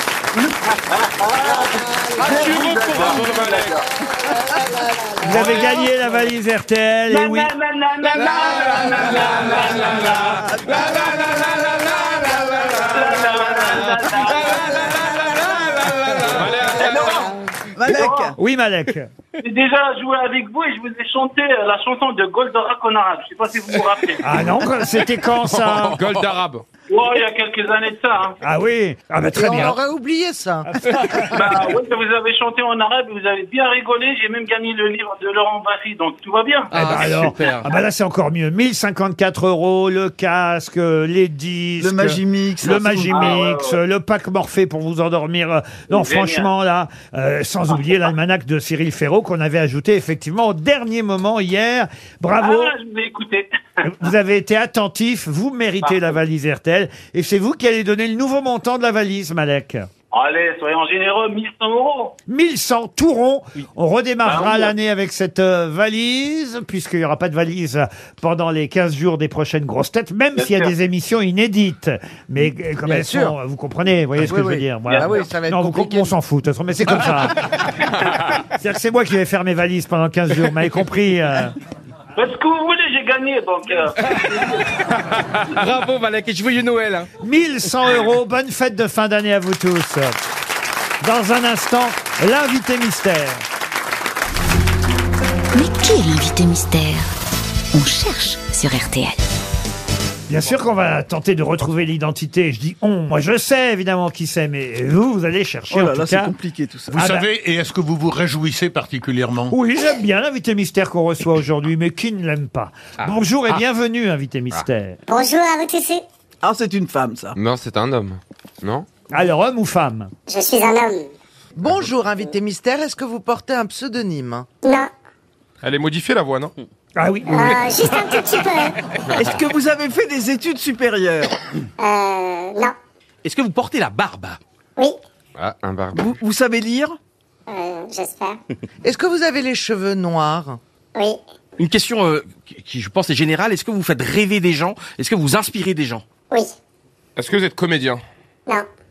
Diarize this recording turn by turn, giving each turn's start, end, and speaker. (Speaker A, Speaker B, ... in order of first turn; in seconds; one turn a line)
Speaker A: 0.3-3.8
Speaker B: 2.2-3.3
Speaker C: 2.2-3.8
Speaker D: 5.2-7.5
Speaker A: 5.3-5.6
Speaker A: 7.1-10.4
Speaker B: 8.0-17.3
Speaker A: 12.6-14.9
Speaker C: 16.3-17.3
Speaker A: 16.7-17.3
Speaker E: 17.8-18.3
Speaker A: 17.9-18.3
Speaker D: 18.4-19.1
Speaker A: 19.4-24.2
Speaker D: 24.2-26.0
Speaker C: 25.5-26.6
Speaker A: 26.9-28.4
Speaker D: 28.4-29.8
Speaker F: 29.3-30.7
Speaker D: 30.7-31.6
Speaker A: 31.2-36.7
Speaker B: 36.7-37.7
Speaker D: 36.7-52.8
Speaker E: 41.8-43.3
Speaker A: 43.1-43.8
Speaker A: 45.9-46.5
Speaker A: 52.4-53.9
Speaker D: 53.8-59.9
Speaker A: 60.1-62.1
Speaker D: 62.3-77.4
Speaker A: 64.2-64.7
Speaker A: 70.4-70.7
Speaker F: 72.8-73.3
Speaker F: 74.2-76.1
Speaker A: 74.9-75.2
Speaker D: 78.6-81.5
Speaker A: 82.2-84.7
Speaker B: 84.0-84.3
Speaker B: 85.4-87.1
Speaker D: 87.2-90.2
Speaker D: 91.0-93.4
Speaker G: 95.5-97.1
Speaker G: 97.7-99.2
Speaker D: 100.3-106.3
Speaker E: 105.7-107.0
Speaker H: 106.9-109.5
Speaker D: 106.9-107.3
Speaker D: 109.5-115.0
Speaker I: 115.1-116.0
Speaker E: 116.4-117.3
Speaker J: 117.3-118.8
Speaker D: 119.1-120.1
Speaker I: 120.3-121.1
Speaker F: 121.5-124.5
Speaker I: 124.6-124.9
Speaker C: 125.6-126.5
Speaker D: 127.0-127.7
Speaker I: 127.3-128.8
Speaker E: 129.1-131.4
Speaker I: 131.8-132.8
Speaker B: 133.2-134.4
Speaker J: 135.4-136.1
Speaker E: 135.9-137.0
Speaker I: 137.5-138.4
Speaker F: 138.8-140.6
Speaker B: 141.6-146.0
Speaker C: 147.2-148.0